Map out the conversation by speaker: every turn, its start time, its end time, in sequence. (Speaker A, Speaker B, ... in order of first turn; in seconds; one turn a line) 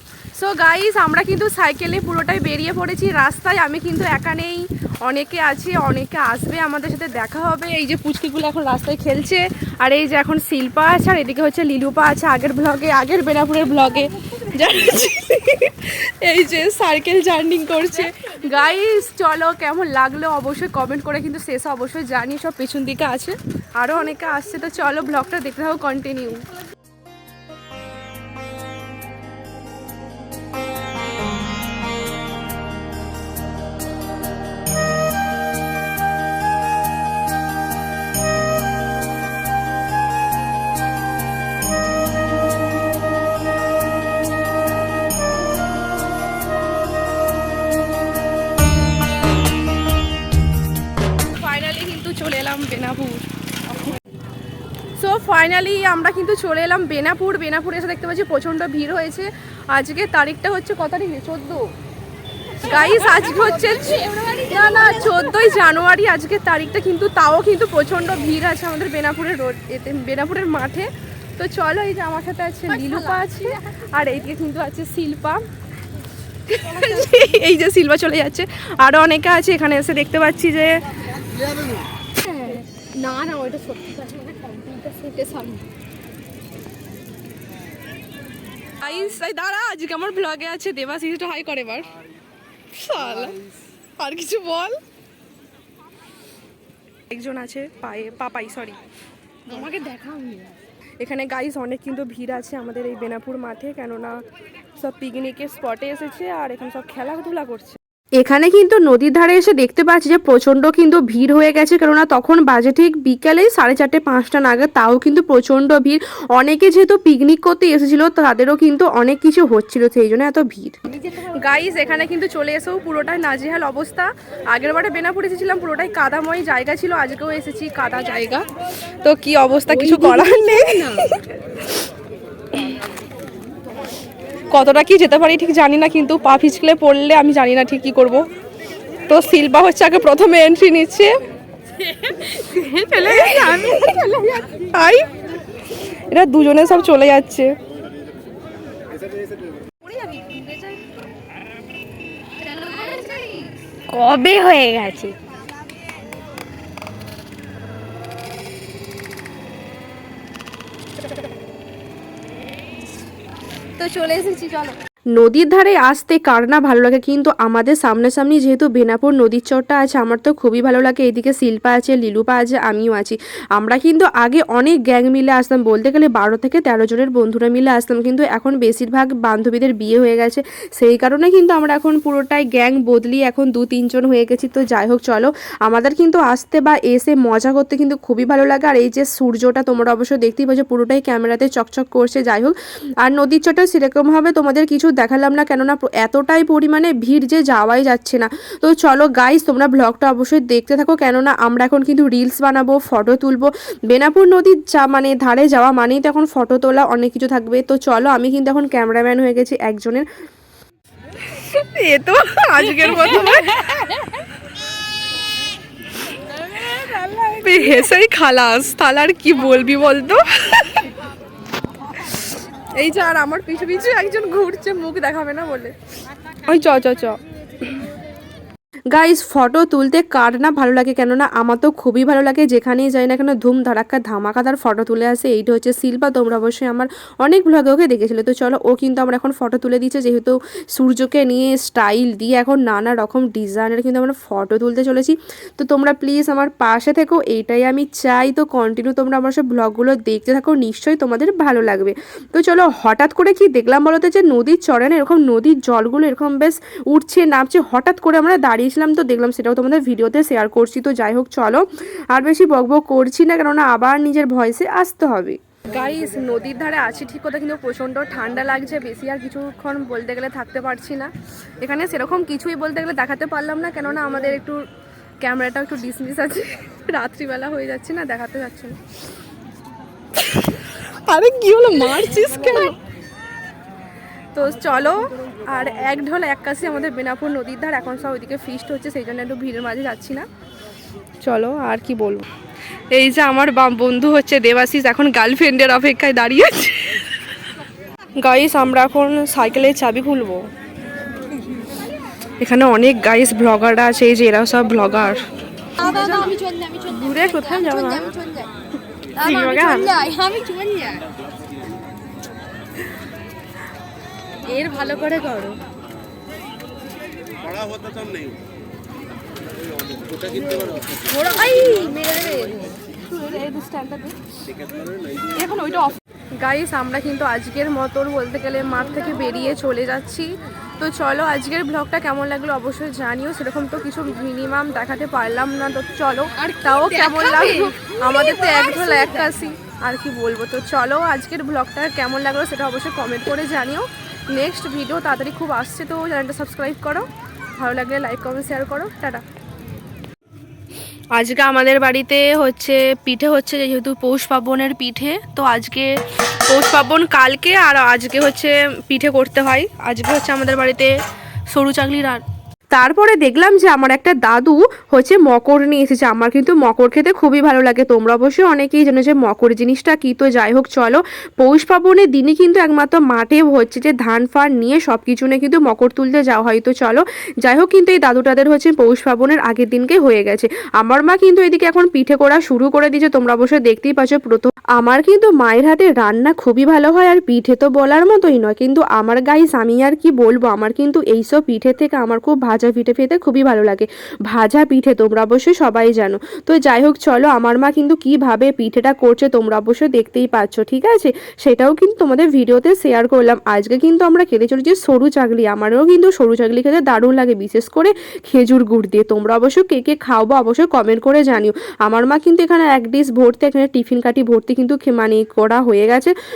Speaker A: 0.4-26.5
Speaker A: 51.3-53.3
Speaker A: 55.0-61.7
Speaker A: 62.6-75.4
Speaker B: 62.7-65.3
Speaker B: 72.7-73.4
Speaker A: 76.5-80.8
Speaker B: 82.2-85.7
Speaker A: 88.8-91.9
Speaker A: 92.7-93.4
Speaker A: 94.0-94.8
Speaker A: 97.1-98.8
Speaker A: 99.5-100.5
Speaker B: 99.5-100.6
Speaker A: 101.0-104.2
Speaker A: 104.8-131.8
Speaker B: 129.7-131.1
Speaker A: 134.5-138.3
Speaker A: 139.1-141.2
Speaker B: 141.8-144.5
Speaker A: 142.9-144.1
Speaker A: 144.7-145.1
Speaker A: 146.1-147.5
Speaker B: 149.8-150.8
Speaker B: 152.5-155.1
Speaker A: 154.1-155.1
Speaker A: 163.8-210.1
Speaker A: 211.3-213.8
Speaker B: 213.3-214.2
Speaker B: 216.5-217.6
Speaker A: 217.4-220.9
Speaker A: 222.8-225.7
Speaker A: 226.4-227.8
Speaker A: 228.9-274.6
Speaker A: 275.2-278.8
Speaker A: 280.2-282.8
Speaker A: 284.3-290.3
Speaker A: 291.2-292.3
Speaker A: 292.9-297.0
Speaker A: 298.2-300.5
Speaker A: 302.4-305.2
Speaker A: 305.8-308.1
Speaker B: 305.8-308.5
Speaker B: 309.2-311.1
Speaker A: 309.2-309.9
Speaker B: 314.4-315.6
Speaker B: 320.9-322.8
Speaker A: 323.0-324.2
Speaker A: 325.4-349.2
Speaker B: 336.4-339.4
Speaker A: 351.1-360.9
Speaker A: 361.5-416.2